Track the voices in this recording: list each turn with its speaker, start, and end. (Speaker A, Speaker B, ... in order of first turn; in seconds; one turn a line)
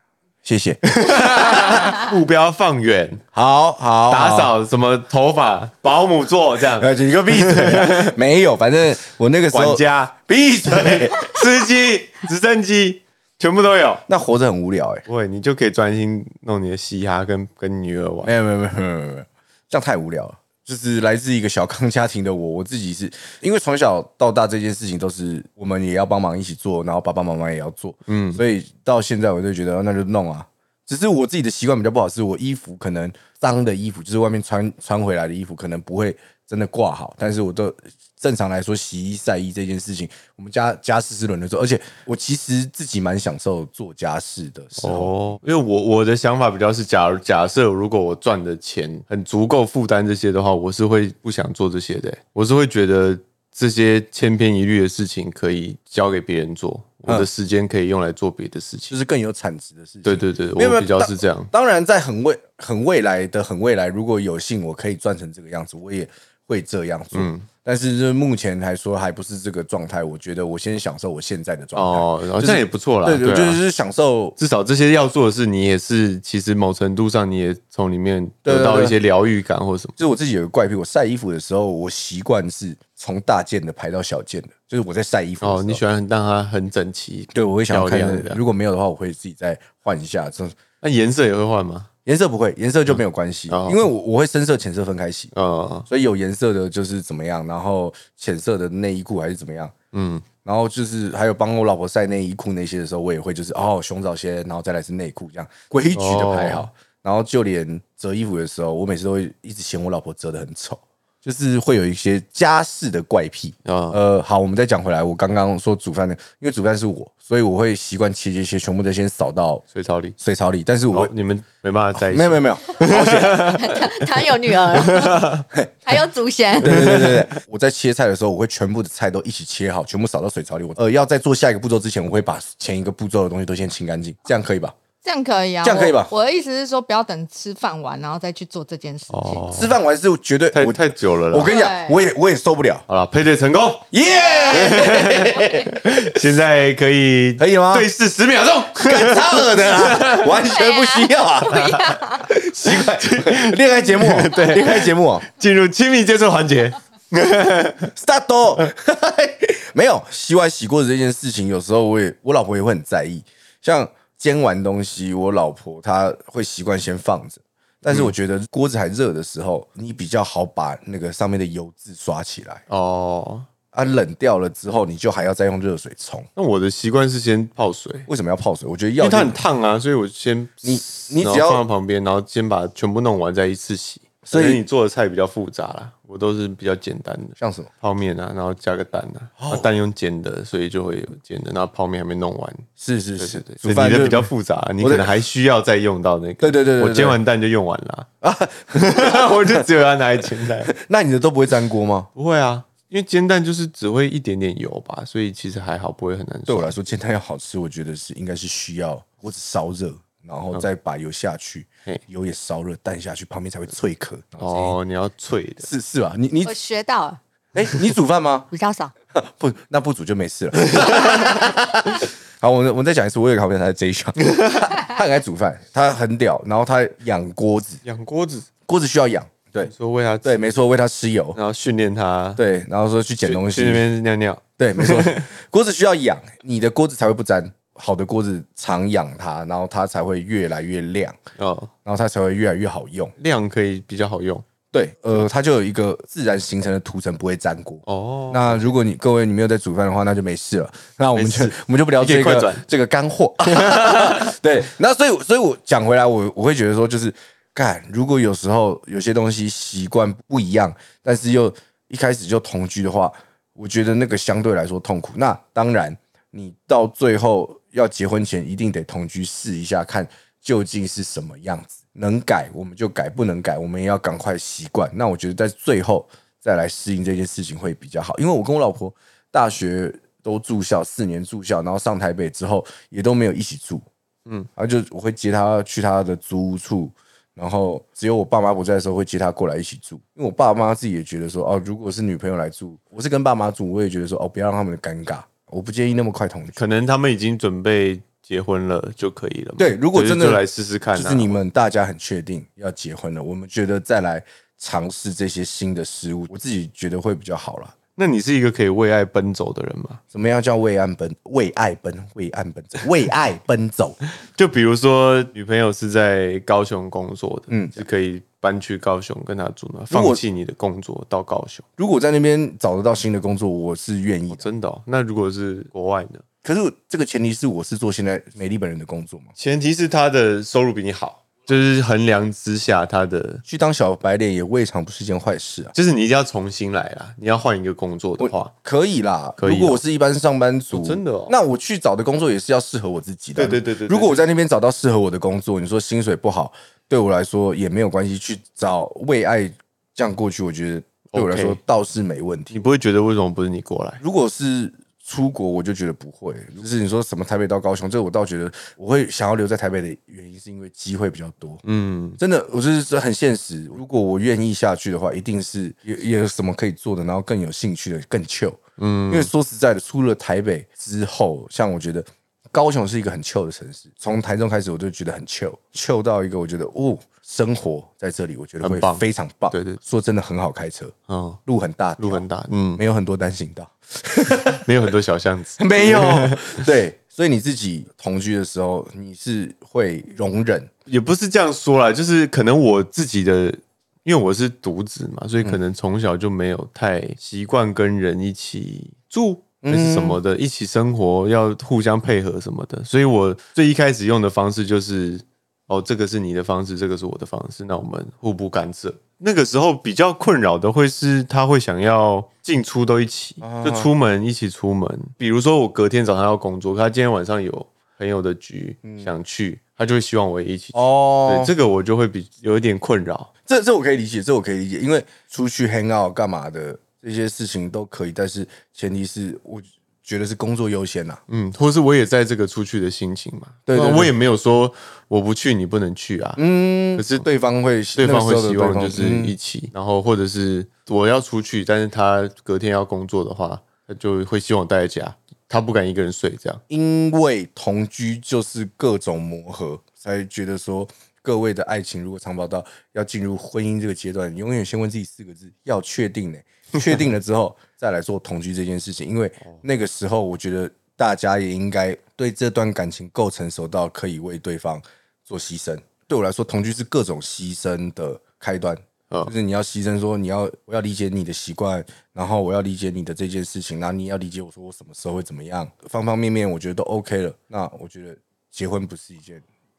Speaker A: 0.4-1.9
Speaker B: 0.8-3.2
Speaker A: 3.3-4.5
Speaker B: 4.1-8.1
Speaker A: 6.8-11.3
Speaker B: 9.5-10.1
Speaker B: 10.7-14.0
Speaker A: 14.1-15.0
Speaker B: 15.1-18.3
Speaker A: 18.2-45.4
Speaker B: 28.1-28.4
Speaker B: 44.8-59.0
Speaker A: 58.9-74.4
Speaker B: 60.0-61.5
Speaker B: 67.1-67.5
Speaker B: 71.7-73.6
Speaker B: 74.4-80.0
Speaker A: 78.4-79.0
Speaker A: 80.0-85.8
Speaker B: 85.4-88.4
Speaker A: 87.3-90.5
Speaker B: 90.8-91.9
Speaker A: 92.0-95.3
Speaker B: 92.9-93.8
Speaker B: 95.3-95.9
Speaker A: 95.9-99.7
Speaker B: 99.9-100.2
Speaker A: 100.4-119.6
Speaker B: 105.9-106.7
Speaker B: 113.6-114.0
Speaker B: 119.7-120.2
Speaker A: 120.2-121.1
Speaker B: 120.9-124.1
Speaker A: 122.0-123.5
Speaker C: 122.9-125.3
Speaker B: 124.7-125.5
Speaker C: 125.8-127.1
Speaker A: 126.6-134.8
Speaker B: 126.7-127.2
Speaker C: 135.0-139.5
Speaker A: 135.6-136.1
Speaker B: 139.1-139.7
Speaker A: 139.5-142.8
Speaker B: 140.5-141.5
Speaker C: 141.5-142.0
Speaker B: 142.9-143.9
Speaker A: 143.9-146.2
Speaker C: 144.1-145.6
Speaker B: 144.5-150.4
Speaker A: 147.4-147.9
Speaker A: 148.8-155.2
Speaker C: 150.4-152.3
Speaker B: 152.7-157.9
Speaker A: 157.9-172.6
Speaker B: 172.7-173.5
Speaker A: 173.7-176.3
Speaker B: 176.3-178.1
Speaker A: 178.1-179.4
Speaker B: 179.0-192.7
Speaker A: 180.6-181.6
Speaker A: 184.2-184.6
Speaker A: 187.4-187.7
Speaker A: 189.4-189.7
Speaker A: 192.8-195.1
Speaker B: 193.2-198.1
Speaker A: 196.4-197.2
Speaker A: 198.2-199.6
Speaker B: 198.7-200.7
Speaker A: 200.7-202.1
Speaker B: 202.1-206.8
Speaker A: 206.5-214.8
Speaker B: 214.4-215.7
Speaker A: 215.6-216.5
Speaker C: 216.4-217.2
Speaker A: 217.5-218.5
Speaker C: 218.5-218.9
Speaker A: 219.1-227.8
Speaker B: 220.7-221.1
Speaker B: 224.2-224.7
Speaker B: 227.8-228.5
Speaker A: 228.7-229.7
Speaker B: 229.6-230.6
Speaker A: 230.2-231.4
Speaker B: 231.3-232.4
Speaker A: 232.4-233.8
Speaker B: 233.2-235.3
Speaker A: 234.6-241.2
Speaker B: 241.4-241.7
Speaker A: 241.8-243.1
Speaker B: 243.2-244.4
Speaker A: 244.7-283.8
Speaker B: 247.8-248.6
Speaker B: 251.1-252.6
Speaker B: 253.4-254.3
Speaker A: 284.6-296.6
Speaker B: 296.6-301.4
Speaker A: 299.6-300.4
Speaker A: 300.9-307.7
Speaker B: 307.9-310.0
Speaker A: 310.1-314.0
Speaker B: 314.3-321.6
Speaker A: 317.5-317.8
Speaker A: 319.9-320.2
Speaker A: 321.8-324.4
Speaker B: 324.3-326.2
Speaker A: 326.4-329.3
Speaker B: 329.4-333.4
Speaker A: 333.4-335.7
Speaker B: 335.7-338.5
Speaker A: 338.2-352.6
Speaker B: 339.4-339.8
Speaker B: 340.7-341.3
Speaker B: 343.4-344.3
Speaker B: 351.1-351.6
Speaker B: 352.5-354.0
Speaker A: 354.0-361.6
Speaker B: 361.6-362.2
Speaker A: 362.2-368.6
Speaker B: 368.8-369.3
Speaker A: 369.1-380.9
Speaker B: 378.6-379.8
Speaker B: 381.1-381.4
Speaker A: 381.4-382.2
Speaker B: 382.0-382.8
Speaker A: 382.8-384.7
Speaker B: 384.5-386.6
Speaker A: 385.6-390.7
Speaker B: 390.9-423.3
Speaker A: 399.6-400.2
Speaker A: 413.4-413.9
Speaker A: 418.8-419.1
Speaker A: 420.7-421.5
Speaker A: 423.4-431.2
Speaker B: 431.3-436.4
Speaker A: 433.7-434.1
Speaker A: 436.4-439.3
Speaker B: 436.9-437.3
Speaker B: 438.0-446.6
Speaker A: 446.7-479.4